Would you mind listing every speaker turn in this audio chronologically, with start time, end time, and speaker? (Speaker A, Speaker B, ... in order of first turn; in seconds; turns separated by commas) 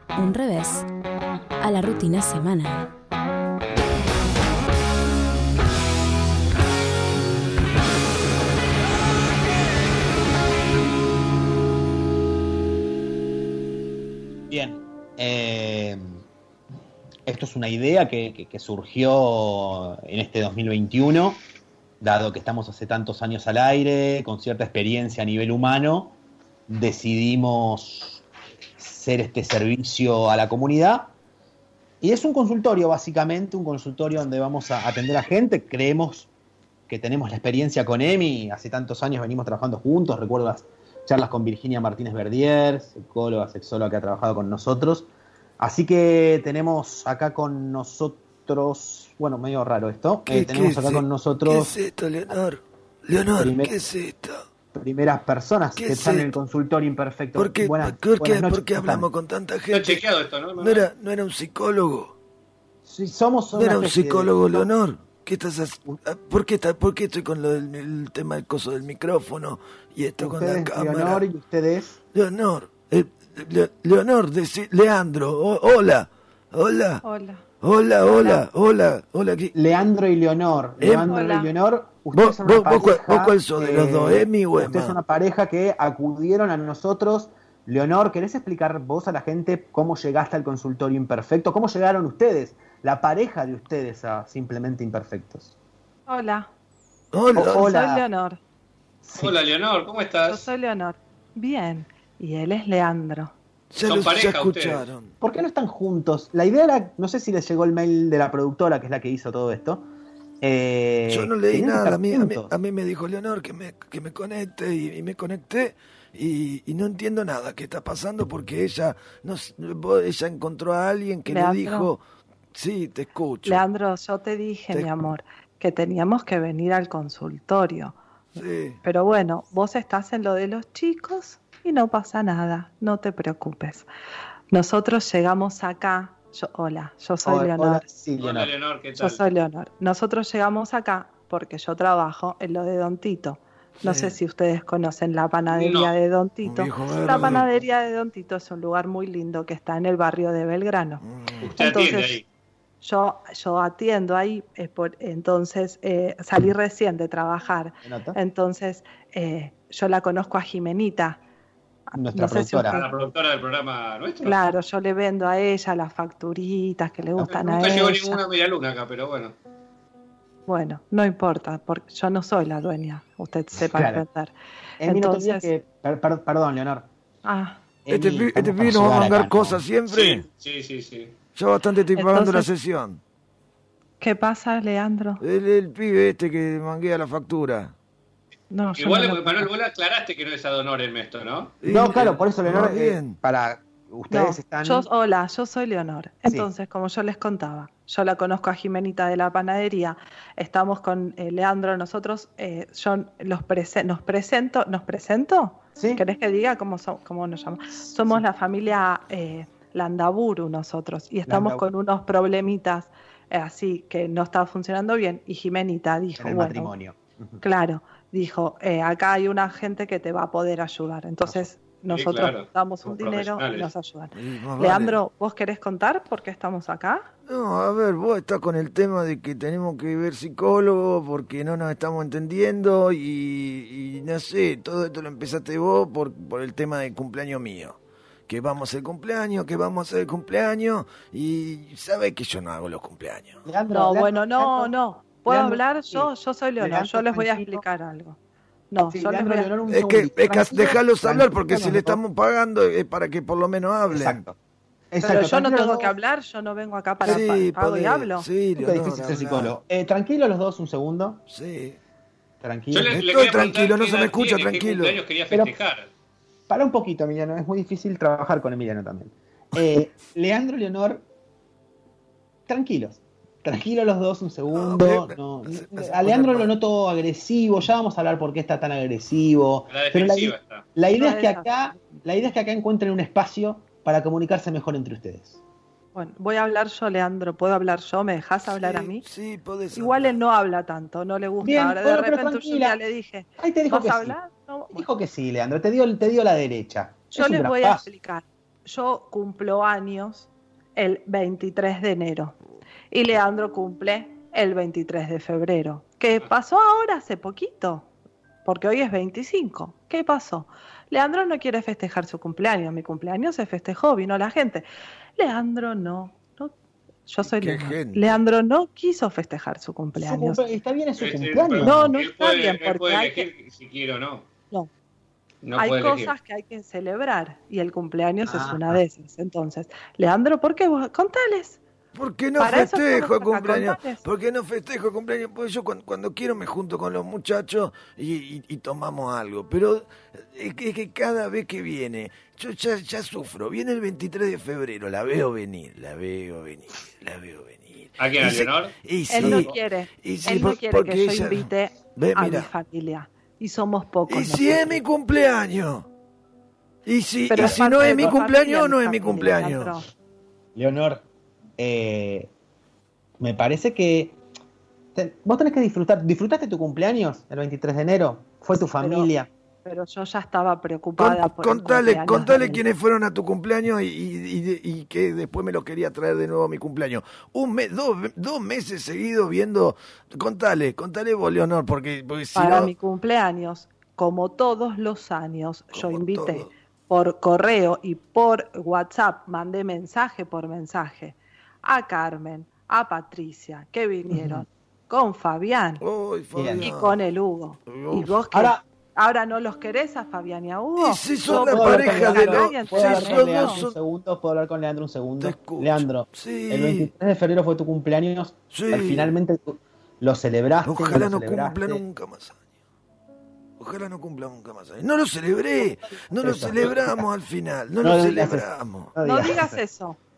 Speaker A: 0.2-0.9, Speaker A: 1.6-2.9, Speaker B: 14.5-16.2, Speaker B: 17.3-21.4, Speaker B: 22.0-26.2, Speaker B: 26.7-28.2, Speaker B: 28.8-31.1, Speaker B: 32.0-36.3, Speaker B: 36.9-45.1, Speaker B: 45.6-51.8, Speaker C: 50.3-54.4, Speaker B: 53.4-53.8, Speaker B: 54.7-59.1, Speaker C: 55.8-56.3, Speaker C: 57.4-60.0, Speaker D: 59.7-60.9, Speaker C: 60.6-62.1, Speaker B: 62.9-64.7, Speaker C: 63.5-71.3, Speaker B: 70.2-72.0, Speaker C: 72.1-77.0, Speaker E: 77.0-77.4, Speaker C: 77.6-79.5, Speaker B: 78.1-78.4, Speaker B: 79.5-95.5, Speaker C: 80.8-81.2, Speaker E: 81.1-81.5, Speaker C: 82.1-85.0, Speaker E: 96.1-96.5, Speaker C: 97.1-97.7, Speaker B: 97.3-98.0, Speaker E: 97.4-98.4, Speaker B: 99.0-99.4, Speaker D: 99.2-100.5, Speaker E: 100.3-103.3, Speaker C: 103.7-105.1, Speaker D: 103.8-104.8, Speaker B: 105.2-109.9, Speaker B: 110.4-112.5, Speaker C: 111.1-122.0, Speaker E: 121.3-121.9, Speaker C: 122.5-123.6, Speaker E: 123.5-128.0, Speaker C: 124.7-125.0, Speaker C: 128.4-128.8, Speaker E: 128.8-133.9, Speaker E: 134.5-137.8, Speaker B: 137.2-138.5, Speaker D: 138.2-139.2, Speaker E: 139.0-151.0, Speaker C: 143.8-144.2, Speaker D: 145.5-145.9, Speaker C: 146.4-147.5, Speaker C: 151.0-151.4, Speaker D: 151.4-152.2, Speaker E: 151.6-152.2, Speaker E: 152.8-161.2, Speaker B: 157.8-158.2, Speaker E: 161.9-162.9, Speaker B: 161.9-162.8, Speaker D: 162.7-164.5, Speaker E: 164.2-168.2, Speaker B: 167.2-167.7, Speaker D: 167.3-169.3, Speaker E: 170.5-175.5, Speaker B: 173.6-174.0, Speaker B: 174.8-176.8, Speaker E: 177.2-177.6, Speaker B: 177.9-179.6, Speaker C: 177.9-180.2, Speaker D: 179.9-181.1, Speaker C: 181.3-183.0, Speaker E: 182.0-182.5, Speaker E: 184.0-185.2, Speaker C: 185.2-187.7, Speaker E: 188.5-189.5, Speaker D: 188.8-191.6, Speaker C: 191.6-193.2, Speaker B: 191.7-194.9, Speaker E: 194.1-216.7, Speaker B: 205.8-206.0, Speaker B: 208.0-208.2, Speaker B: 211.3-211.7, Speaker B: 216.2-217.4, Speaker E: 217.4-227.1, Speaker D: 221.9-223.7, Speaker C: 224.2-225.0, Speaker C: 227.3-237.8, Speaker C: 238.3-243.4, Speaker B: 243.4-244.7, Speaker E: 243.7-248.2, Speaker B: 245.3-247.7, Speaker E: 248.7-249.5, Speaker B: 248.9-252.0, Speaker C: 249.7-254.2, Speaker B: 253.9-254.4, Speaker B: 254.9-255.9, Speaker E: 255.0-258.3, Speaker B: 257.0-257.4, Speaker C: 257.1-259.5, Speaker B: 258.6-261.2, Speaker C: 261.3-261.8, Speaker B: 262.4-263.0, Speaker D: 262.7-265.9, Speaker C: 262.9-265.0, Speaker B: 266.5-271.1, Speaker B: 272.5-285.4, Speaker C: 274.5-276.5, Speaker D: 279.7-280.6, Speaker E: 280.9-281.5, Speaker E: 285.9-289.1, Speaker C: 288.5-290.2, Speaker E: 289.7-294.9, Speaker B: 291.4-292.8, Speaker B: 293.4-294.2, Speaker B: 294.7-297.9, Speaker E: 297.1-302.4, Speaker E: 302.9-307.9, Speaker E: 308.4-316.5, Speaker E: 317.1-320.4, Speaker C: 317.2-318.2, Speaker B: 319.9-322.0, Speaker D: 321.0-324.2, Speaker E: 321.6-323.3, Speaker D: 325.4-326.1, Speaker E: 325.6-331.6, Speaker B: 328.2-328.8, Speaker C: 331.9-349.5, Speaker E: 332.4-334.0, Speaker D: 348.0-349.5, Speaker E: 349.1-354.8, Speaker C: 350.0-352.5, Speaker C: 354.1-355.9, Speaker C: 356.9-359.8, Speaker E: 357.3-359.8, Speaker B: 357.3-358.2, Speaker B: 360.6-361.0, Speaker B: 361.6-362.3, Speaker B: 363.2-364.2, Speaker B: 364.9-369.3, Speaker E: 368.6-369.1, Speaker E: 369.6-372.6, Speaker C: 371.0-382.7, Speaker E: 382.4-395.8, Speaker C: 385.7-386.5, Speaker B: 394.1-394.5, Speaker C: 395.8-397.0, Speaker B: 396.4-396.7, Speaker E: 396.6-403.6, Speaker C: 397.7-398.2, Speaker B: 398.3-398.6, Speaker C: 400.8-403.8, Speaker B: 401.3-411.8, Speaker C: 405.2-406.9, Speaker C: 408.5-409.1, Speaker C: 410.6-412.4, Speaker C: 413.6-418.9, Speaker B: 415.6-417.1, Speaker B: 417.8-419.6, Speaker E: 419.0-420.0